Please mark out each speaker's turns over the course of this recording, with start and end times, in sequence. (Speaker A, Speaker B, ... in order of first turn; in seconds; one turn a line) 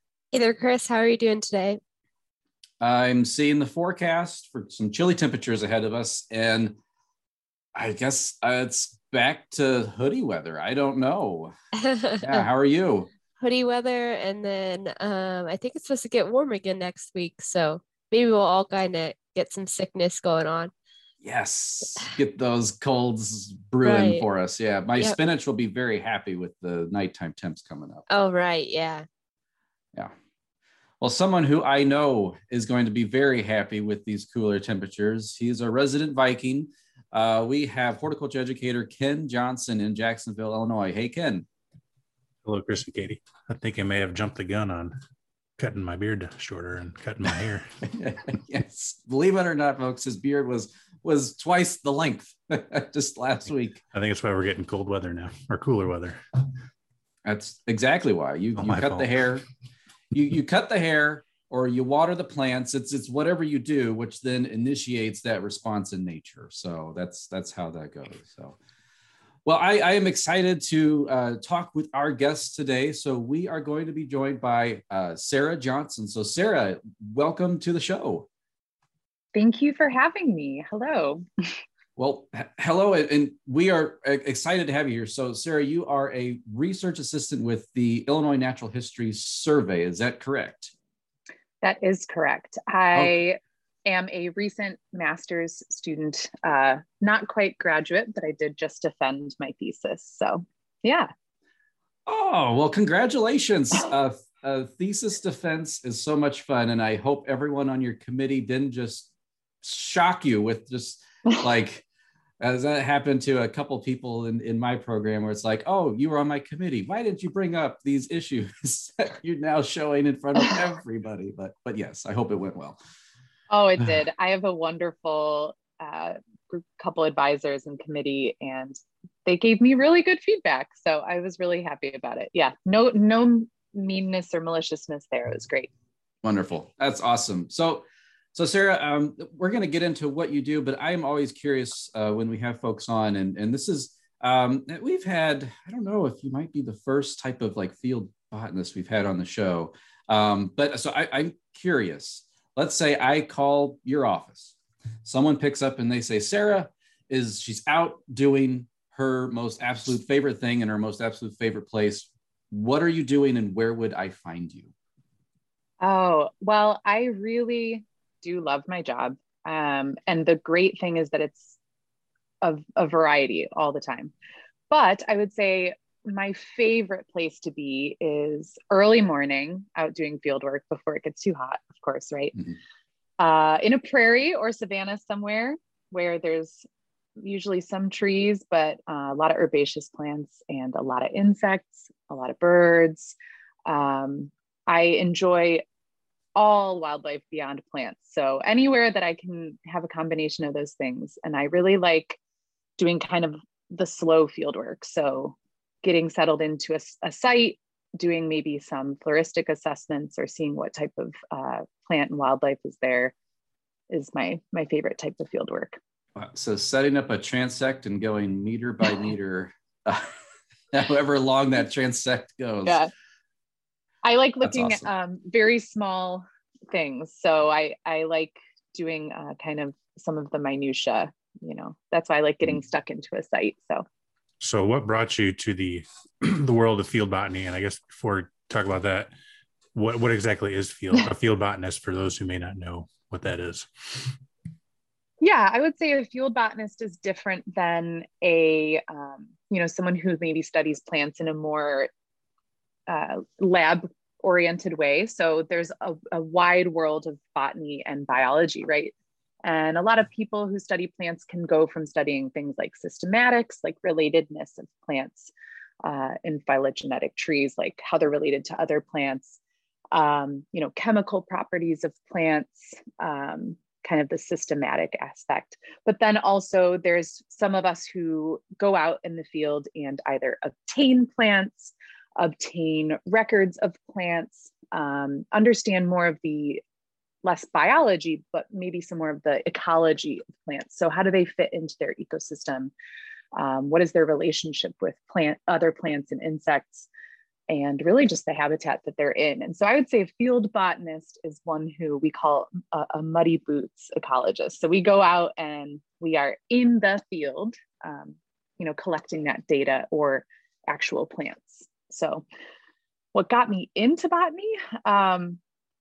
Speaker A: 0.3-1.8
Speaker B: 2.8-6.8
Speaker B: 7.7-11.5
Speaker A: 11.8-12.4
Speaker B: 12.2-13.1
Speaker A: 13.4-20.7
Speaker B: 21.2-28.1
Speaker A: 23.8-24.2
Speaker A: 28.1-29.0
Speaker B: 31.0-41.5
Speaker C: 42.4-44.9
Speaker C: 45.6-47.7
Speaker B: 47.9-53.8
Speaker C: 53.9-56.2
Speaker B: 57.2-59.4
Speaker C: 58.6-59.1
Speaker B: 60.1-68.6
Speaker B: 69.5-78.3
Speaker D: 79.3-81.2
Speaker B: 82.0-90.7
Speaker D: 91.6-101.1
Speaker B: 102.1-109.1
Speaker B: 109.6-111.8
Speaker B: 112.4-122.8
Speaker D: 123.5-135.7
Speaker B: 136.2-137.8
Speaker B: 138.3-164.7
Speaker D: 165.8-171.6
Speaker D: 172.4-174.1
Speaker D: 174.7-182.3
Speaker D: 183.2-186.7
Speaker D: 187.2-195.6
Speaker D: 196.3-202.2
Speaker D: 202.8-213.1
Speaker D: 213.9-215.8
Speaker B: 216.2-220.1
Speaker B: 220.7-222.9
Speaker D: 222.6-222.9
Speaker D: 224.0-233.8
Speaker B: 224.4-224.8
Speaker C: 234.4-239.1
Speaker C: 239.7-244.1
Speaker D: 245.2-251.9
Speaker D: 252.9-258.9
Speaker D: 259.4-265.3
Speaker D: 265.8-269.4
Speaker D: 269.9-286.6
Speaker D: 287.2-292.7
Speaker D: 293.3-296.9
Speaker D: 297.5-312.2
Speaker D: 313.1-315.4